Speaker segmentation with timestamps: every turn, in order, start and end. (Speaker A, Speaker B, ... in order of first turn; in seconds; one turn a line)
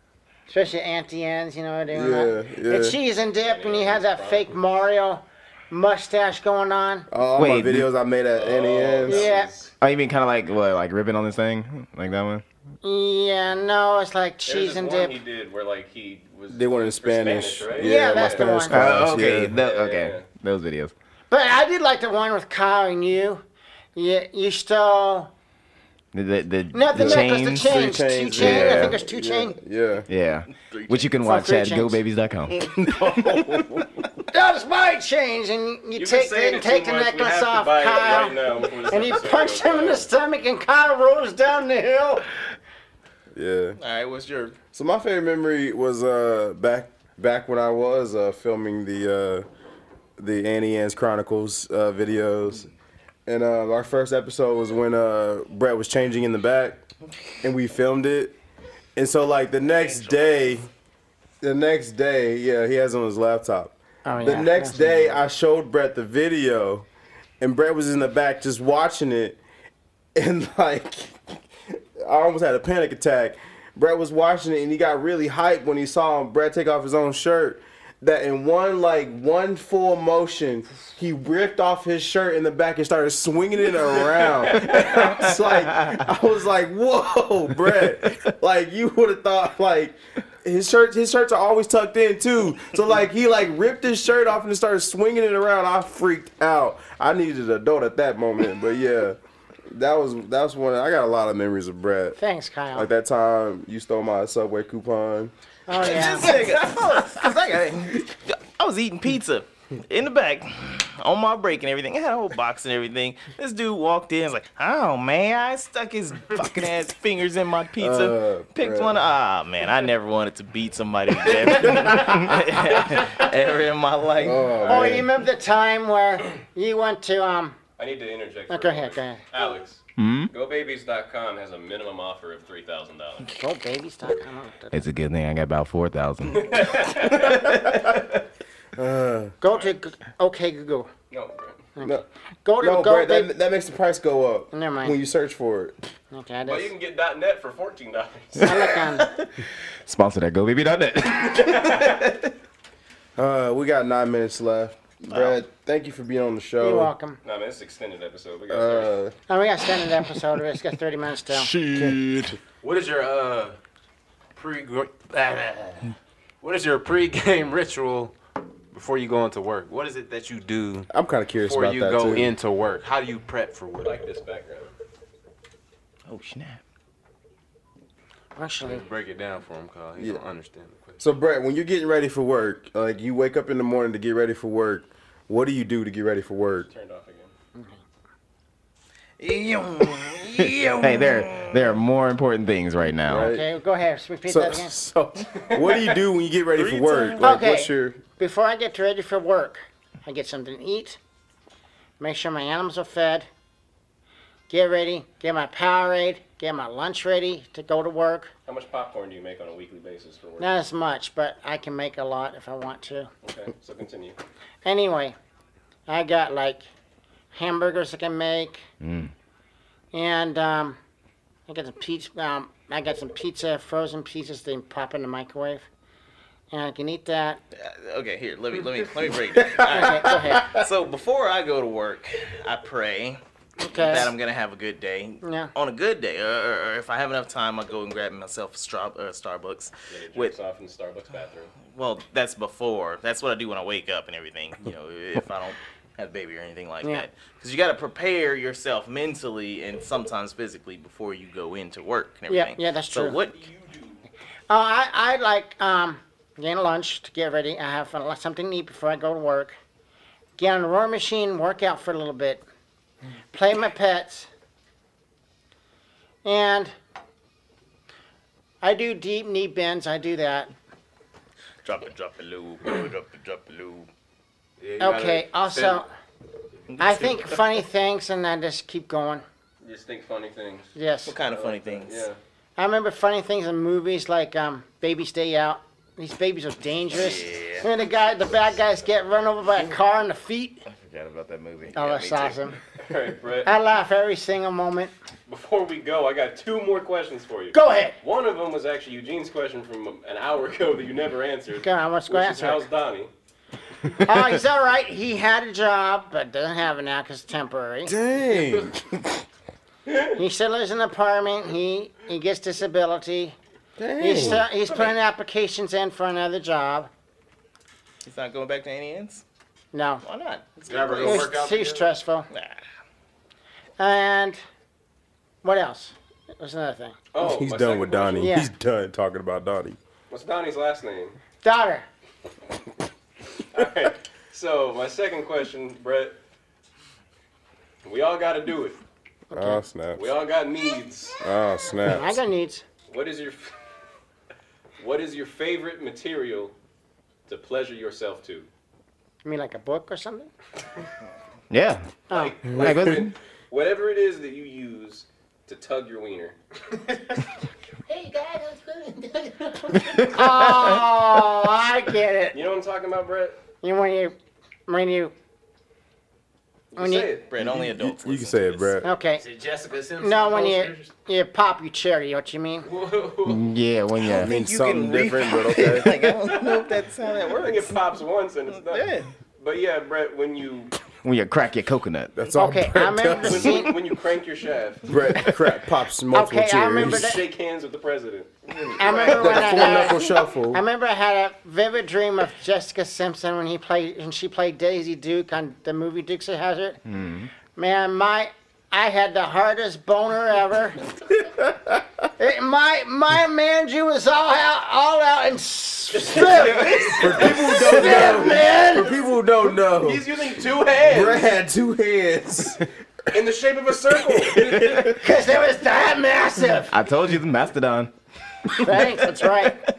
Speaker A: 0.5-7.1
Speaker B: 1.9-3.0
Speaker C: 3.4-4.6
Speaker B: 7.1-9.3
Speaker D: 7.3-7.9
Speaker C: 8.3-9.7
Speaker A: 9.1-9.5
Speaker D: 9.8-12.4
Speaker A: 12.8-15.2
Speaker C: 14.5-18.5
Speaker B: 16.5-19.6
Speaker A: 17.8-18.8
Speaker D: 18.7-20.9
Speaker C: 19.5-20.2
Speaker A: 21.3-23.4
Speaker A: 23.9-25.3
Speaker D: 26.1-29.0
Speaker A: 26.7-29.6
Speaker B: 26.9-30.1
Speaker D: 30.1-33.6
Speaker E: 30.5-31.1
Speaker A: 31.2-32.0
Speaker E: 33.1-33.6
Speaker A: 34.3-42.2
Speaker C: 36.0-40.1
Speaker B: 43.3-43.8
Speaker E: 43.8-44.5
Speaker B: 44.7-49.5
Speaker B: 50.2-52.7
Speaker B: 53.3-56.8
Speaker B: 57.4-58.4
Speaker B: 59.0-60.7
Speaker E: 59.6-60.3
Speaker B: 61.4-66.8
Speaker A: 64.0-65.0
Speaker B: 67.4-69.4
Speaker B: 70.1-71.3
Speaker B: 72.0-99.2
Speaker C: 84.7-85.1
Speaker B: 99.7-102.2
Speaker A: 102.2-102.9
Speaker B: 102.7-105.3
Speaker A: 105.7-106.5
Speaker E: 105.8-124.6
Speaker B: 117.8-119.0
Speaker B: 124.2-125.1
Speaker C: 124.6-125.0
Speaker A: 124.7-127.6
Speaker C: 127.8-133.3
Speaker A: 128.5-129.2
Speaker D: 130.0-130.3
Speaker A: 133.3-134.8
Speaker D: 134.7-136.7
Speaker C: 136.3-137.5
Speaker B: 138.8-139.3
Speaker A: 139.4-140.9
Speaker C: 141.1-141.6
Speaker A: 141.8-143.3
Speaker B: 142.6-145.7
Speaker A: 144.5-145.0
Speaker A: 146.1-146.7
Speaker C: 146.4-148.7
Speaker A: 148.4-149.1
Speaker D: 149.8-152.2
Speaker B: 153.2-156.9
Speaker A: 156.6-157.2
Speaker C: 157.2-158.9
Speaker B: 158.5-159.1
Speaker A: 159.3-161.5
Speaker D: 161.3-162.4
Speaker B: 161.7-162.0
Speaker F: 162.6-163.6
Speaker F: 164.3-168.1
Speaker F: 168.7-174.0
Speaker B: 170.9-172.3
Speaker C: 173.8-174.7
Speaker E: 176.1-176.6
Speaker A: 178.3-178.8
Speaker F: 178.6-181.0
Speaker B: 181.0-186.7
Speaker C: 186.7-187.3
Speaker E: 189.2-191.7
Speaker D: 190.4-193.3
Speaker B: 193.1-193.5
Speaker A: 193.2-194.7
Speaker B: 194.3-198.0
Speaker C: 195.5-196.0
Speaker E: 196.5-197.3
Speaker A: 197.2-201.0
Speaker A: 202.0-203.3
Speaker A: 204.5-208.3
Speaker C: 208.4-210.5
Speaker A: 210.4-213.1
Speaker C: 213.2-214.2
Speaker A: 214.6-215.2
Speaker A: 215.9-216.7
Speaker A: 217.3-218.7
Speaker D: 218.8-219.1
Speaker A: 219.9-220.8
Speaker A: 221.5-225.7
Speaker A: 226.5-227.4
Speaker E: 227.5-240.3
Speaker B: 229.4-230.6
Speaker A: 229.7-230.5
Speaker A: 233.6-234.1
Speaker A: 235.2-235.5
Speaker C: 239.9-241.6
Speaker E: 241.6-253.5
Speaker A: 252.3-253.2
Speaker A: 254.5-259.6
Speaker A: 260.4-262.4
Speaker A: 263.3-264.3
Speaker A: 266.2-266.7
Speaker A: 268.6-270.5
Speaker E: 271.6-273.9
Speaker F: 274.6-275.8
Speaker A: 274.8-275.9
Speaker E: 276.7-277.4
Speaker A: 276.8-279.2
Speaker C: 279.6-280.7
Speaker A: 280.7-281.2
Speaker E: 281.0-282.1
Speaker C: 281.3-282.2
Speaker A: 282.6-290.6
Speaker E: 286.9-287.7
Speaker E: 290.7-292.4
Speaker A: 291.7-292.6
Speaker C: 292.8-293.5
Speaker A: 293.4-294.9
Speaker C: 295.3-303.1
Speaker A: 297.5-298.0
Speaker A: 301.6-302.7
Speaker A: 304.0-307.9
Speaker B: 307.9-309.0
Speaker A: 310.1-313.4
Speaker B: 313.8-314.4
Speaker A: 314.0-316.9
Speaker E: 314.1-315.0
Speaker E: 318.0-319.2
Speaker A: 319.7-320.0
Speaker E: 320.0-321.4
Speaker F: 320.6-321.9
Speaker A: 321.0-322.3
Speaker E: 322.3-322.6
Speaker A: 323.8-324.4
Speaker A: 325.4-326.9
Speaker C: 327.1-328.3
Speaker B: 327.2-329.8
Speaker A: 328.2-328.5
Speaker C: 330.1-331.2
Speaker A: 331.4-331.9
Speaker C: 333.5-336.2
Speaker C: 337.8-338.8
Speaker A: 339.3-339.6
Speaker B: 339.3-340.0
Speaker C: 339.9-341.2
Speaker B: 341.2-342.2
Speaker A: 341.9-342.6
Speaker C: 342.9-343.5
Speaker C: 344.8-346.5
Speaker C: 347.3-348.5
Speaker A: 349.2-350.3
Speaker D: 351.5-351.9
Speaker C: 352.1-356.4
Speaker A: 352.1-352.4
Speaker D: 352.5-353.1
Speaker D: 359.8-360.8
Speaker A: 360.1-362.4
Speaker C: 362.3-363.4
Speaker A: 363.6-365.1
Speaker C: 366.7-367.3
Speaker A: 366.8-367.1
Speaker E: 367.2-368.8
Speaker B: 367.4-368.9
Speaker A: 368.8-369.2
Speaker F: 369.2-370.9
Speaker A: 370.0-372.7
Speaker F: 372.6-373.4
Speaker D: 373.2-374.4
Speaker B: 374.1-376.3
Speaker E: 374.1-377.7
Speaker C: 377.3-380.7
Speaker E: 378.5-379.1
Speaker D: 381.0-382.1
Speaker B: 382.1-383.8
Speaker A: 382.3-383.8
Speaker C: 383.2-384.9
Speaker B: 384.9-387.1
Speaker A: 386.1-387.2
Speaker C: 386.8-389.9
Speaker A: 388.8-396.8
Speaker B: 389.0-390.6
Speaker D: 396.9-397.3
Speaker A: 397.5-400.8
Speaker A: 402.2-408.9
Speaker C: 406.0-408.2
Speaker B: 406.9-410.1
Speaker C: 409.6-411.3
Speaker B: 410.8-412.7
Speaker C: 413.1-415.0
Speaker A: 415.0-416.7
Speaker D: 416.7-417.9
Speaker A: 418.6-419.6